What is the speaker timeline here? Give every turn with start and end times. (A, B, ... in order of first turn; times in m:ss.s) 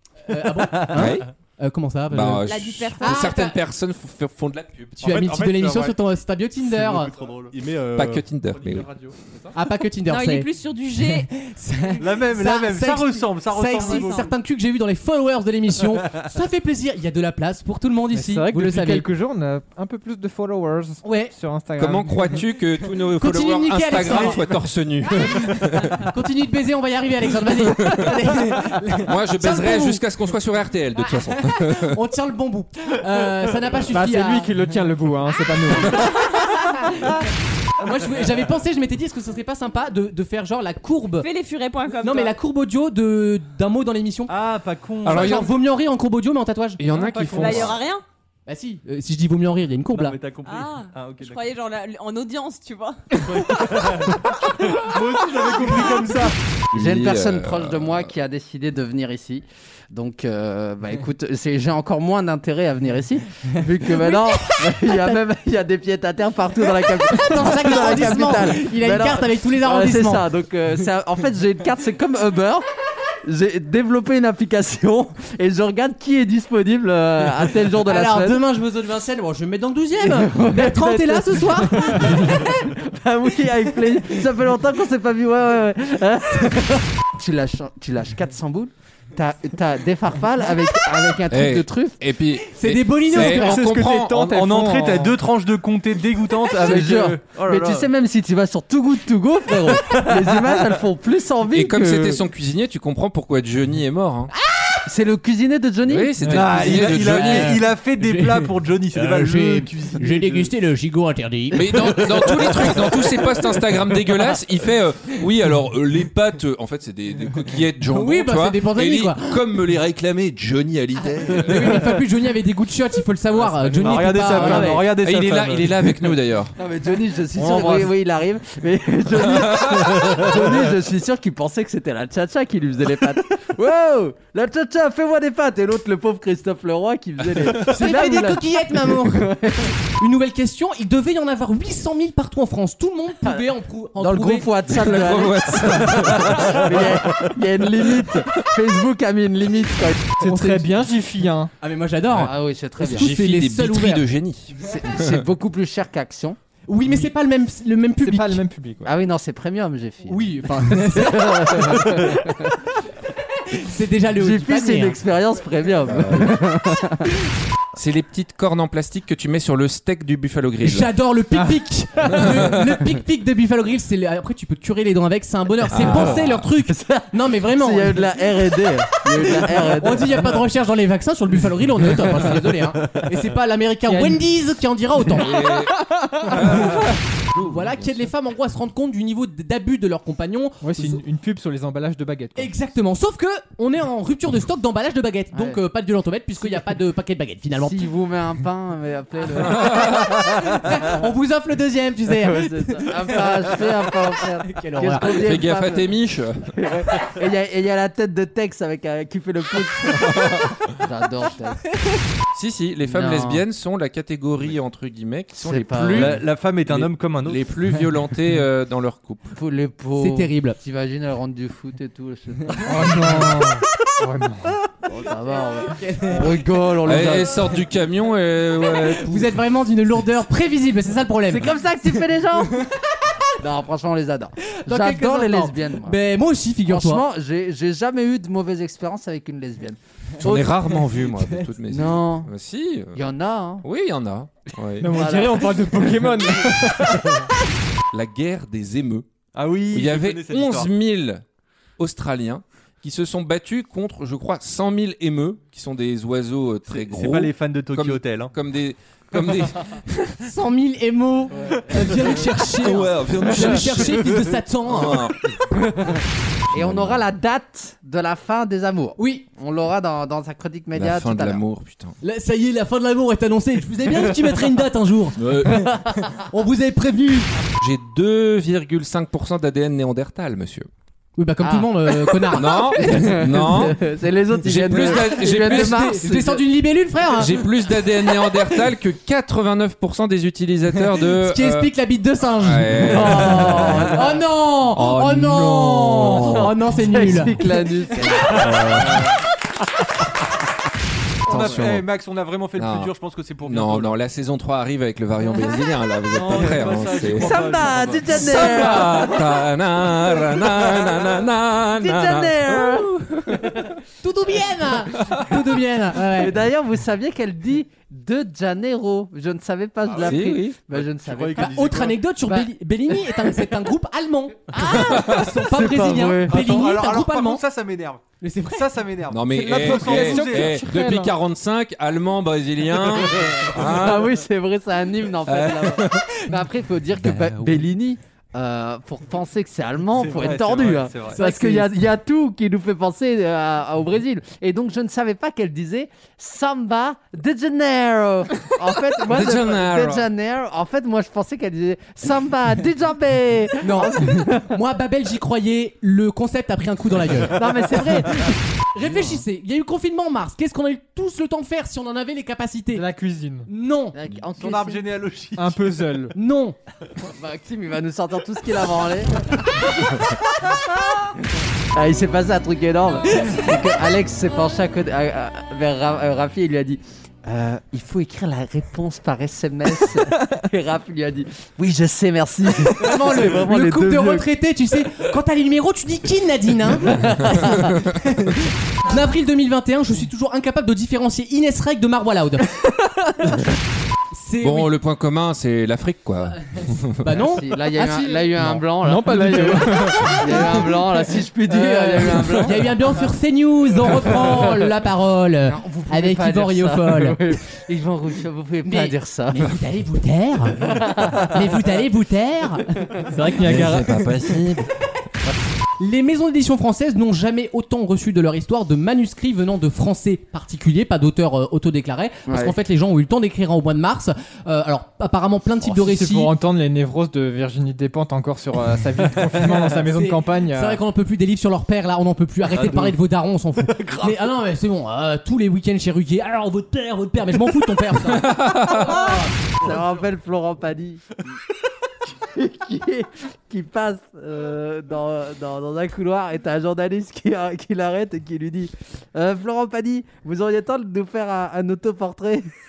0:00.3-0:02.5 A
0:00.8-0:01.3 B
0:02.1-0:05.0 B
0:02.4-0:03.5 C
0:03.0-0:03.5 A
0:05.0-0:06.0 D
0:05.0-0:07.1 A
0:06.6-0:09.2 D
0:07.1-0:07.5 E
0:08.0-0:08.9 B
0:09.5-0:19.1 A
0:10.1-0:11.3 C
0:12.0-0:14.3 E
0:14.0-0:14.3 C
0:18.1-0:22.5 F
0:21.0-0:21.3 A
0:21.8-0:26.1 B
0:23.2-0:24.5 A
0:24.0-0:24.4 E
0:25.3-0:30.0 A
0:29.1-0:32.0 B
0:31.0-0:34.5 A
0:33.8-0:36.1 F
0:35.9-0:37.1 A
0:37.8-0:41.3 A
0:41.2-0:42.4 C
0:42.0-0:44.4 A
0:44.3-0:45.5 E
0:45.0-0:46.8 A
0:45.0-0:45.5 B
0:46.8-0:47.8 B
0:46.9-0:47.8 E
0:47.4-0:48.0 C
0:48.5-0:50.2 A
0:49.9-0:51.5 E
0:50.4-0:53.1 C
0:53.2-0:56.4 E
0:56.7-0:58.1 B
0:56.7-1:12.7 G
1:04.0-1:05.2 A
1:07.1-1:10.2 A
1:13.2-1:18.4 G
1:17.9-1:22.5 A
1:20.0-1:32.0 G
1:31.3-1:34.7 B
1:32.4-1:33.8 A
1:33.1-1:37.9 E
1:33.4-1:35.2 F
1:36.5-1:42.2 G
1:41.5-1:44.3 B
1:44.5-1:44.8 A
1:44.9-1:46.4 G
1:45.9-1:47.6 B
1:46.2-1:50.5 E
1:46.4-1:52.0 A
1:51.5-2:01.9 B
1:57.9-1:59.4 A
2:01.3-2:04.9 A
2:01.6-2:02.0 E
2:03.4-2:06.0 E
2:04.4-2:06.6 B
2:06.6-2:19.7 G
2:07.4-2:07.9 E
2:09.4-2:10.0 B
2:17.5-2:24.6 A
2:24.0-2:30.2 G
2:24.7-2:26.9 B
2:30.2-2:31.5 F
2:30.2-2:30.7 A
2:31.6-2:34.1 A
2:32.1-2:33.1 G
2:32.8-2:35.2 B
2:34.6-2:36.4 G
2:36.7-2:38.4 A
2:36.8-2:37.1 F
2:38.0-2:38.9 F
2:38.8-2:40.2 G
2:40.1-2:42.2 A
2:40.9-2:42.4 G
2:43.5-2:45.0 A
2:44.2-2:47.1 G
2:45.9-2:46.3 B
2:47.8-2:50.9 B
2:50.6-2:58.0 A
2:55.7-2:56.5 B
2:55.8-3:00.4 G
2:59.3-3:05.4 A
3:03.9-3:04.2 F
3:05.2-3:08.0 B
3:06.3-3:06.9 A
3:07.5-3:11.0 A
3:10.6-3:12.5 F
3:12.4-3:17.9 A
3:15.3-3:15.6 G
3:17.6-3:20.2 G
3:19.5-3:23.7 A
3:22.2-3:26.0 G
3:24.5-3:25.2 A
3:25.1-3:26.5 B
3:26.5-3:31.6 G
3:30.2-3:30.5 B
3:32.3-3:39.3 B
3:32.9-3:33.4 G
3:35.3-3:36.2 G
3:35.9-3:37.5 E
3:39.3-3:43.3 G
3:40.0-3:40.6 A
3:42.7-3:44.6 F
3:44.8-3:47.5 G
3:45.4-3:46.4 A
3:46.8-3:49.3 B
3:48.9-3:51.6 A
3:51.3-3:52.5 G
3:52.4-3:52.8 A
3:53.4-3:56.0 G
3:54.6-3:57.0 A
3:56.7-3:59.8 G
4:00.2-4:03.0 B
4:01.7-4:02.3 G
4:02.9-4:03.6 G
4:03.6-4:05.0 B
4:04.8-4:07.3 F
4:04.9-4:06.4 G
4:07.9-4:09.1 B
4:09.3-4:10.7 E
4:09.7-4:11.2 B
4:11.8-4:20.2 B
4:16.7-4:18.3 E
4:20.2-4:25.0 A
4:22.5-4:25.2 B
4:25.5-4:26.0 G
4:26.5-4:27.0 B
4:26.5-4:31.4 G
4:29.0-4:29.3 A
4:30.8-4:32.0 B
4:32.0-4:35.7 A
4:35.2-4:35.7 B
4:36.3-4:37.3 A
4:37.6-4:40.7 B
4:41.2-4:42.6 A
4:41.4-4:46.4 G
4:42.3-4:43.8 B
4:44.4-4:45.8 B
4:44.7-4:47.3 A
4:47.1-4:51.7 B
4:51.2-4:57.6 A
4:52.4-4:54.0 B
4:52.8-4:54.2 G
4:54.7-4:56.5 B
4:56.0-4:58.9 G
4:58.2-4:59.0 B
4:58.6-4:59.1 E
5:01.2-5:04.0 E
5:01.3-5:01.8 B
5:02.6-5:07.5 B
5:06.1-5:08.4 E
5:06.3-5:09.2 G
5:08.1-5:13.7 B
5:08.3-5:09.0 A
5:10.6-5:11.1 G
5:11.8-5:13.8 G
5:14.0-5:16.4 A
5:14.9-5:15.4 B
5:16.0-5:21.7 G
5:19.9-5:20.6 B
5:20.7-5:22.0 E
5:21.4-5:27.4 A
5:24.6-5:26.4 G
5:24.8-5:25.3 B
5:26.2-5:30.7 E
5:28.2-5:28.7 A
5:29.1-5:34.1 B
5:29.7-5:31.1 F
5:33.1-5:54.5 G
5:35.2-5:36.1 B
5:36.9-5:37.6 B
5:39.9-5:41.2 E
5:41.1-5:41.7 A
5:49.1-5:50.1 B
5:53.6-5:58.1 A
5:57.3-5:58.4 G
5:58.8-6:02.9 A
5:58.8-5:59.2 F
6:02.7-6:03.5 F
6:03.5-6:04.0 A
6:03.9-6:04.8 G
6:04.4-6:05.6 E
6:05.4-6:06.2 F
6:06.1-6:06.6 A
6:07.1-6:09.8 G
6:11.7-6:24.3 G
6:22.8-6:32.5 A
6:34.1-6:34.7 A
6:34.4-6:37.1 B
6:37.0-6:38.7 A
6:37.2-6:42.8 G
6:38.8-6:40.6 F
6:39.9-6:40.4 A
6:41.5-6:47.2 A
6:45.5-6:49.5 G
6:48.6-6:52.7 A
6:50.6-6:51.5 G
6:53.1-6:54.0 F
6:53.4-6:54.7 B
6:55.8-7:06.3 A
7:02.3-7:02.6 G
7:05.6-7:10.8 F
7:09.8-7:19.3 A
7:12.5-7:13.0 E
7:13.8-7:14.1 E
7:18.2-7:18.6 B
7:18.9-7:21.2 G
7:22.1-7:32.5 G